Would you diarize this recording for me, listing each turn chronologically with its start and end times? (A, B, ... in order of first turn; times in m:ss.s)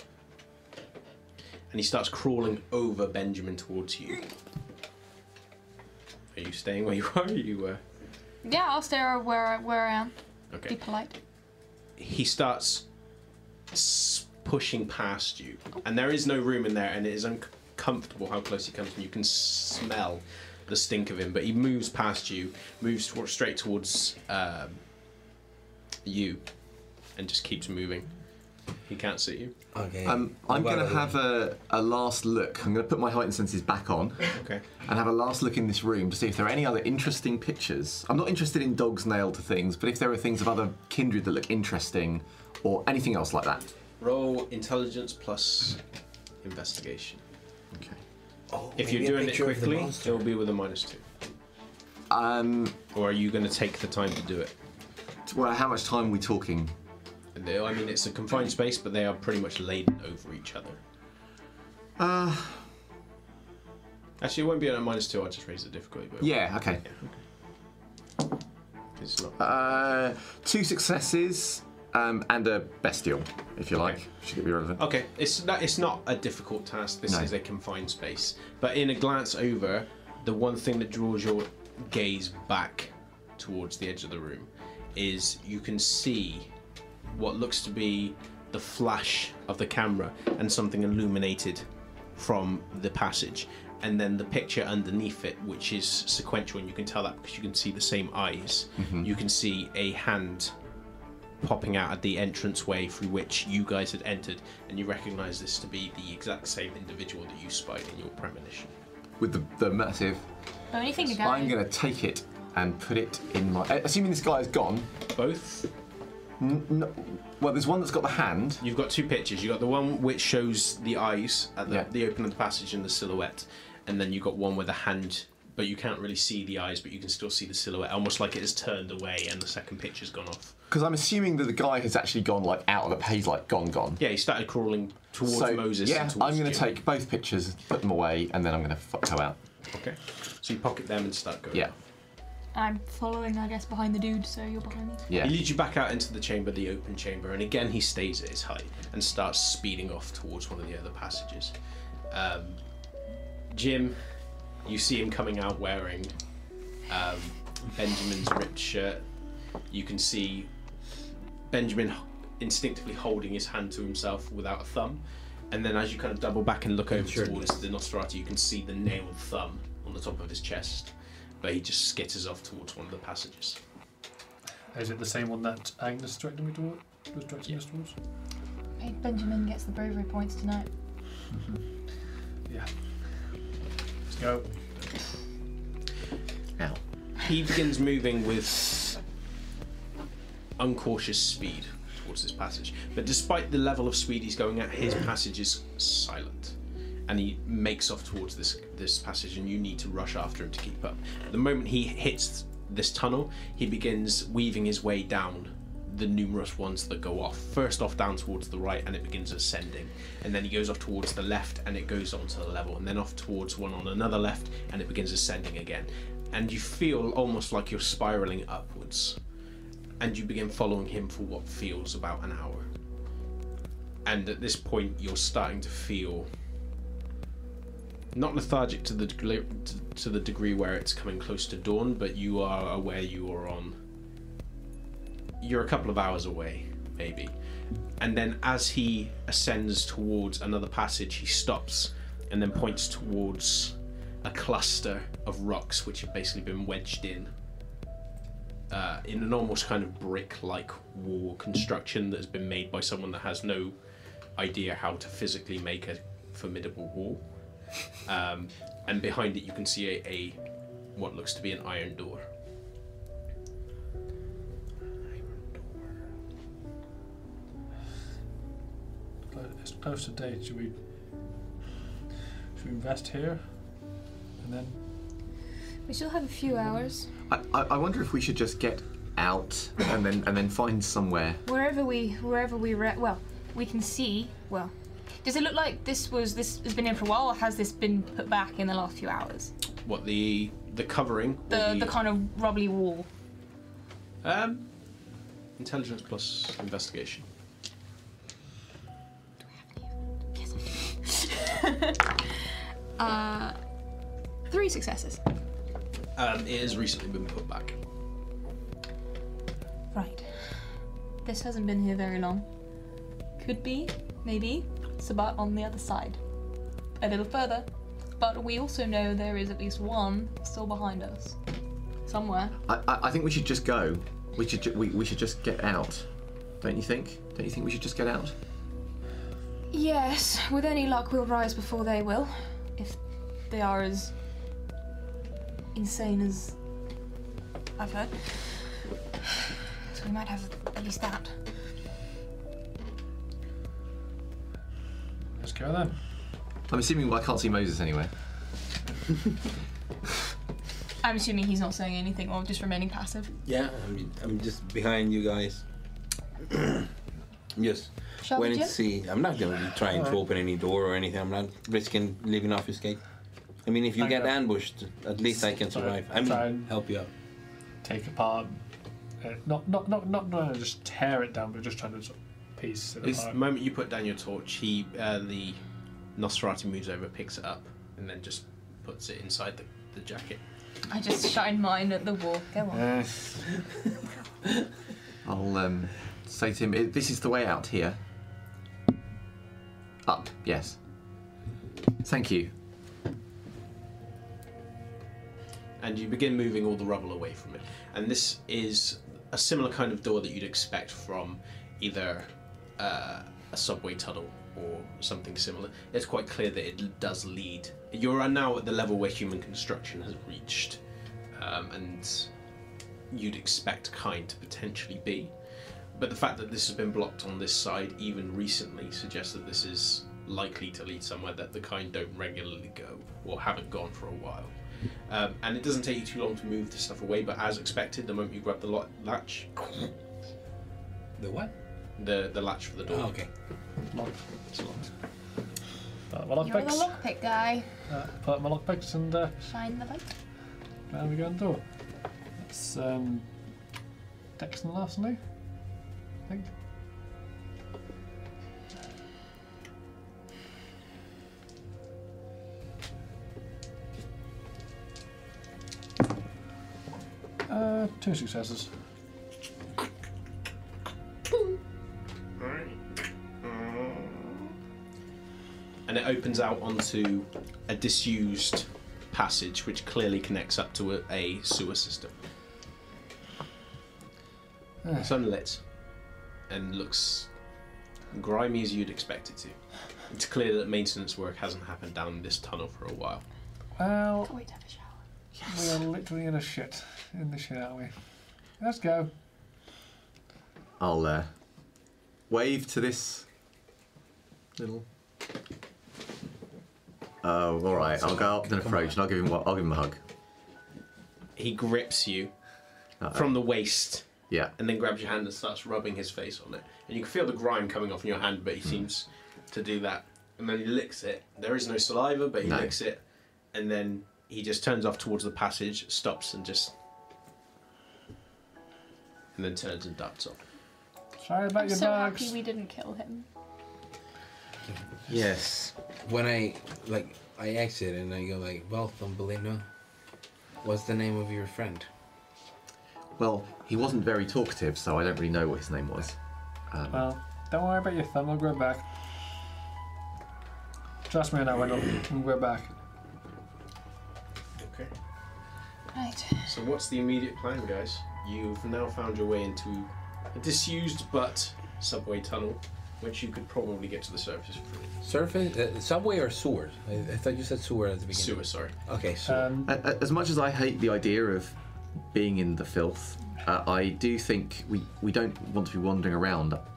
0:01.7-0:04.3 A
0:06.3-0:07.8 A
0:08.4-0:11.2 B
0:12.0-0:12.9 A
0:13.7-0:24.9 A
0:26.0-0:29.7 A
0:29.7-0:31.2 C
0:30.0-0:43.7 D
0:34.3-0:34.6 A
0:44.0-0:45.8 A
0:46.4-0:47.2 A
0:47.7-0:48.0 D
0:48.5-0:50.2 C
0:48.8-0:51.0 A
0:52.1-0:52.8 D
0:52.9-0:54.5 A
0:55.3-0:56.7 D
0:57.4-1:00.8 A
1:02.0-1:02.7 D
1:04.2-1:07.2 A
1:06.2-1:06.8 D
1:09.0-1:09.4 A
1:09.4-1:14.8 D
1:14.8-1:26.5 A
1:17.1-1:17.3 D
1:27.1-1:40.5 A
1:38.8-1:39.1 D
1:41.4-1:48.7 A
1:49.2-1:50.3 D
1:50.7-1:51.6 B
1:51.0-1:54.9 D
1:55.2-1:55.7 A
1:56.4-1:58.6 D
1:58.6-2:10.6 A
2:10.7-2:14.0 D
2:14.0-2:16.7 A
2:15.2-2:19.4 D
2:19.7-2:21.8 A
2:22.5-2:25.1 B
2:25.1-2:25.4 D
2:25.2-2:31.5 A
2:32.1-2:32.6 A
2:33.5-2:36.2 A
2:36.8-2:39.1 A
2:39.7-2:40.5 A
2:41.5-2:53.6 A
2:46.9-2:47.5 C
2:54.7-2:58.0 E
2:58.8-3:00.7 B
3:01.3-3:01.6 E
3:02.5-3:03.4 E
3:04.1-3:04.7 E
3:07.2-3:09.0 A
3:10.6-3:39.2 A
3:40.0-3:42.7 A
3:44.0-3:46.3 A
3:48.1-3:53.8 A
3:55.4-3:57.4 A
3:57.9-4:07.3 A
4:08.7-4:13.8 A
4:14.4-4:20.4 A
4:20.9-4:22.2 A
4:29.3-4:30.8 E
4:32.5-4:33.8 E
4:34.4-4:34.8 E
4:35.9-4:37.1 B
4:37.3-4:41.4 D
4:41.5-4:49.5 B
4:49.8-4:52.0 A
4:51.5-4:53.1 B
4:54.2-4:57.3 A
4:59.4-5:02.2 B
5:03.0-5:03.6 B
5:04.5-5:05.2 B
5:06.2-5:07.8 A
5:09.9-5:12.5 B
5:13.4-5:16.2 B
5:17.0-5:21.4 B
5:22.1-5:22.6 B
5:22.7-5:26.1 D
5:26.6-5:28.4 D
5:29.7-5:34.1 B
5:35.7-5:36.6 B
5:37.8-5:38.8 B
5:39.9-5:41.4 B
5:45.4-5:46.0 E
5:46.7-5:48.1 D
5:51.0-5:53.3 B
5:53.4-5:55.7 C
5:56.5-5:56.8 C
5:57.6-6:03.1 C
5:58.2-5:58.8 B
5:59.9-6:00.2 E
6:03.6-6:07.1 C
6:04.0-6:04.6 E
6:05.3-6:06.7 E
6:07.8-6:08.6 E
6:09.2-6:13.4 E
6:13.0-6:15.6 A
6:16.2-6:20.4 A
6:20.9-6:22.9 B
6:22.7-6:23.5 E
6:25.2-6:28.0 D
6:30.0-6:30.8 D
6:32.0-6:32.5 D
6:35.8-6:50.8 A
6:51.3-6:52.3 A
6:53.1-6:55.3 A
6:55.9-7:09.8 A
7:11.2-7:11.5 C
7:12.0-7:13.2 A
7:12.9-7:13.3 C
7:13.8-7:14.4 E
7:14.5-7:14.9 A
7:16.1-7:17.0 E
7:16.4-7:17.7 B
7:17.9-7:19.3 E
7:19.5-7:20.1 B
7:20.9-7:23.4 E
7:24.4-7:25.2 E
7:26.3-7:26.5 E
7:37.5-7:38.7 E
7:42.4-7:44.5 A
7:45.9-7:52.2 A
7:54.8-7:55.1 E
7:55.0-7:57.4 A
7:58.1-8:03.3 A
8:03.8-8:04.4 E
8:04.3-8:05.0 B
8:05.4-8:05.8 D
8:05.5-8:09.1 E
8:10.8-8:11.3 D
8:12.3-8:13.3 D
8:14.6-8:14.9 D
8:17.2-8:20.0 D
8:17.8-8:18.9 C
8:21.4-8:22.3 A
8:23.0-8:23.4 D
8:23.0-8:36.7 A
8:32.4-8:32.7 D
8:39.4-8:40.4 A
8:41.2-8:42.3 E
8:41.6-8:43.3 B
8:44.7-8:49.7 C
8:45.1-8:45.7 D
8:50.6-8:51.9 C
8:53.2-8:57.1 D
8:56.9-8:59.0 E
9:01.1-9:02.7 E
9:04.6-9:04.9 A
9:05.9-9:06.5 B
9:06.4-9:15.0 A
9:15.0-9:19.5 C
9:18.1-9:18.8 A
9:19.3-9:19.7 E
9:19.6-9:21.6 D
9:22.1-9:26.6 D